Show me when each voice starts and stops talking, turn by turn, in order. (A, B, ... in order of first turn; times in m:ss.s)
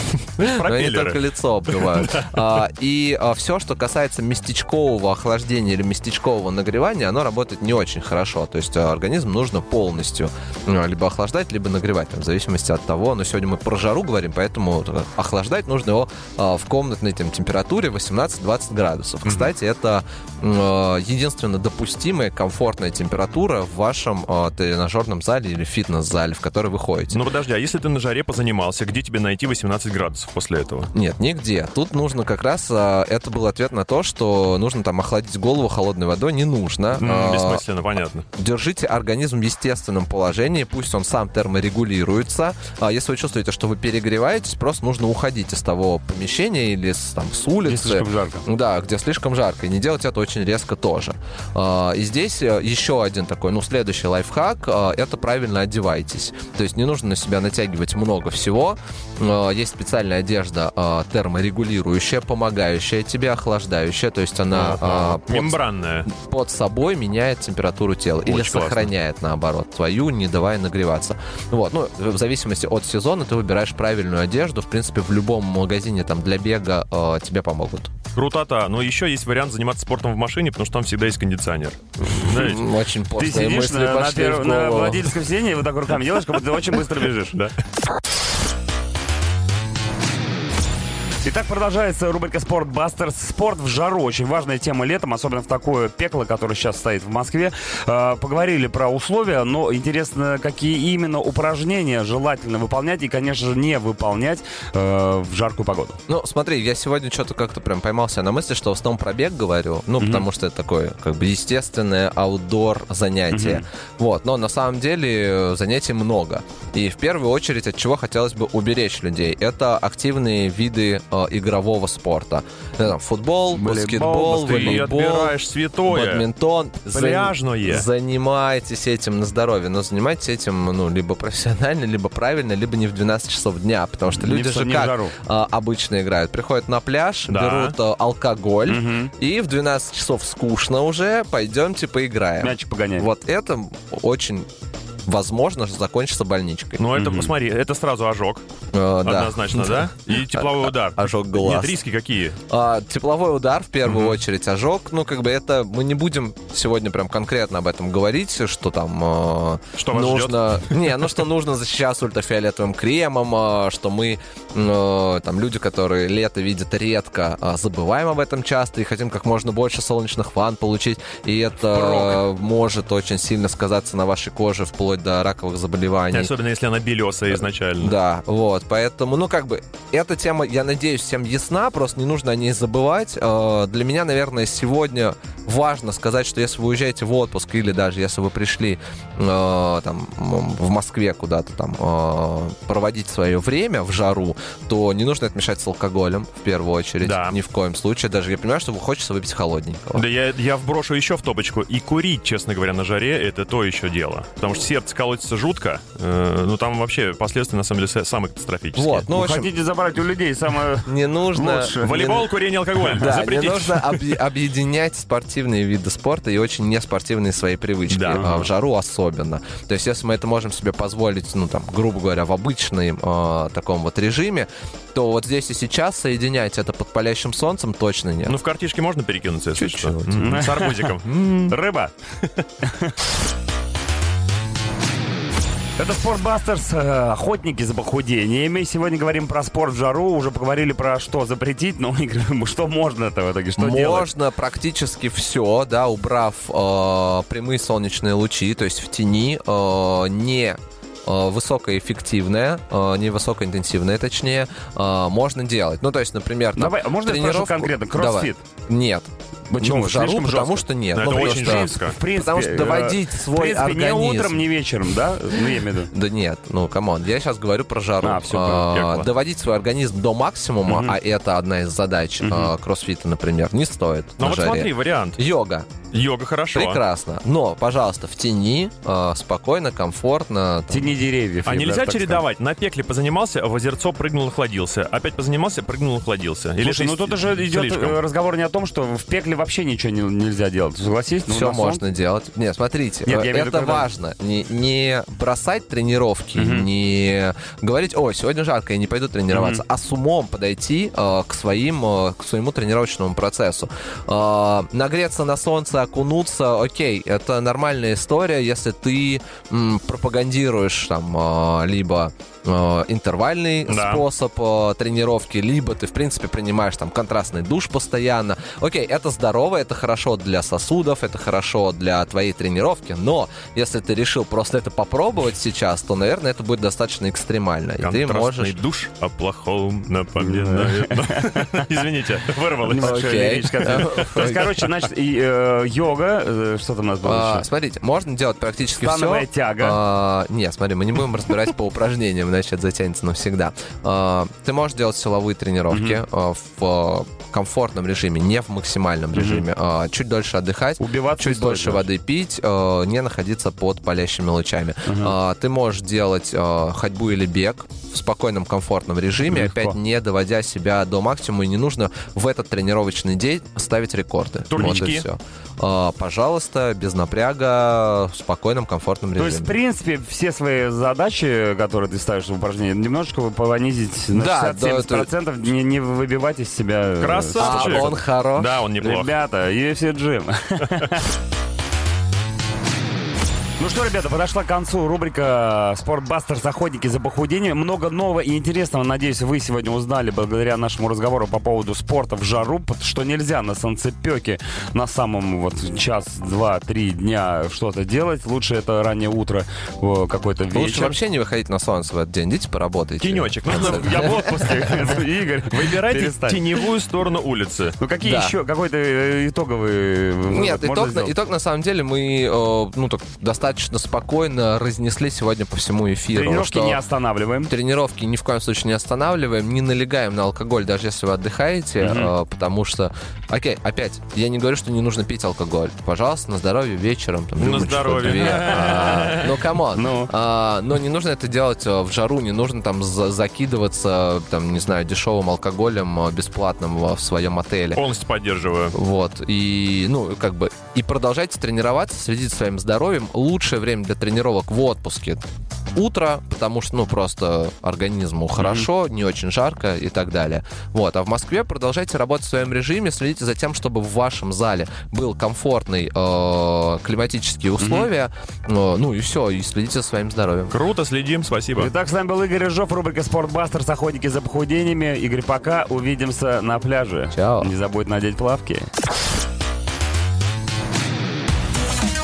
0:00.4-0:02.4 A
0:00.4-0:27.2 B
0:19.3-0:19.5 A
0:27.1-0:30.9 A
0:30.9-0:37.6 B
0:37.0-0:38.2 A
0:38.4-1:17.9 B
0:47.7-0:48.4 C
1:04.5-1:06.1 A
1:08.2-1:08.9 A
1:18.1-1:22.7 A
1:22.0-1:25.2 B
1:23.2-1:27.4 C
1:31.2-1:46.0 C
1:46.1-2:05.4 B
1:50.0-1:50.3 C
1:53.3-1:53.6 C
2:03.5-2:04.9 C
2:04.3-2:06.3 A
2:05.9-2:24.5 B
2:06.9-2:07.9 A
2:14.1-2:15.1 C
2:17.3-2:17.8 A
2:18.7-2:19.1 C
2:22.4-2:23.1 C
2:25.1-2:26.8 B
2:26.8-2:28.4 A
2:27.0-2:27.3 C
2:28.7-2:31.8 B
2:29.0-2:32.4 A
2:32.5-2:56.3 B
2:33.9-2:34.2 A
2:39.8-2:40.7 A
2:51.8-2:52.2 C
2:56.1-2:58.0 A
2:57.3-3:20.0 B
3:17.0-3:17.4 A
3:20.0-3:29.1 A
3:28.8-3:29.5 B
3:29.1-3:32.1 C
3:30.9-3:32.3 B
3:31.8-3:34.1 A
3:32.9-3:48.4 B
3:37.9-3:38.5 A
3:48.3-3:51.6 A
3:49.6-3:50.3 B
3:50.2-3:50.9 C
3:51.5-3:51.9 C
3:52.6-3:52.9 C
3:55.8-4:04.1 C
4:03.6-4:24.4 B
4:16.6-4:18.4 C
4:19.5-4:25.9 C
4:20.9-4:22.0 A
4:25.9-4:35.7 B
4:28.0-4:28.9 C
4:28.7-4:29.0 A
4:30.7-4:31.0 C
4:32.2-4:32.5 C
4:34.2-4:35.2 A
4:35.9-4:36.8 A
4:36.5-4:41.0 B
4:40.7-4:42.2 C
4:41.4-4:48.0 A
4:46.6-4:51.8 C
4:51.3-5:28.6 B
4:53.0-4:53.9 C
4:56.4-4:56.7 C
4:59.3-4:59.6 C
5:13.7-5:14.0 A
5:27.8-5:33.0 A
5:30.2-5:31.4 C
5:32.7-5:37.5 C
5:32.8-5:34.6 B
5:37.0-6:09.5 B
5:38.8-5:39.8 C
5:45.7-5:46.0 C
5:49.1-5:49.5 C
5:50.8-5:51.9 C
5:54.9-5:55.2 C
5:59.3-5:59.8 C
6:04.5-6:05.1 A
6:04.6-6:04.9 C
6:09.2-6:18.0 C
6:14.1-6:15.1 B
6:17.0-6:19.1 A
6:17.4-6:18.6 B
6:18.8-6:21.0 C
6:23.6-6:41.0 C
6:40.5-6:44.5 B
6:43.0-6:47.8 A
6:43.5-6:46.6 C
6:47.8-6:51.1 C
6:48.0-6:48.4 B
6:50.3-6:56.8 B
6:56.1-6:57.5 C
6:57.5-7:17.8 B
7:01.8-7:02.1 C
7:07.4-7:09.4 A
7:09.8-7:10.1 C
7:17.8-7:18.8 A
7:18.7-7:40.5 B
7:28.4-7:28.7 C
7:37.6-7:37.9 C
7:40.5-7:41.7 A
7:41.6-7:48.7 C
7:47.1-7:47.5 B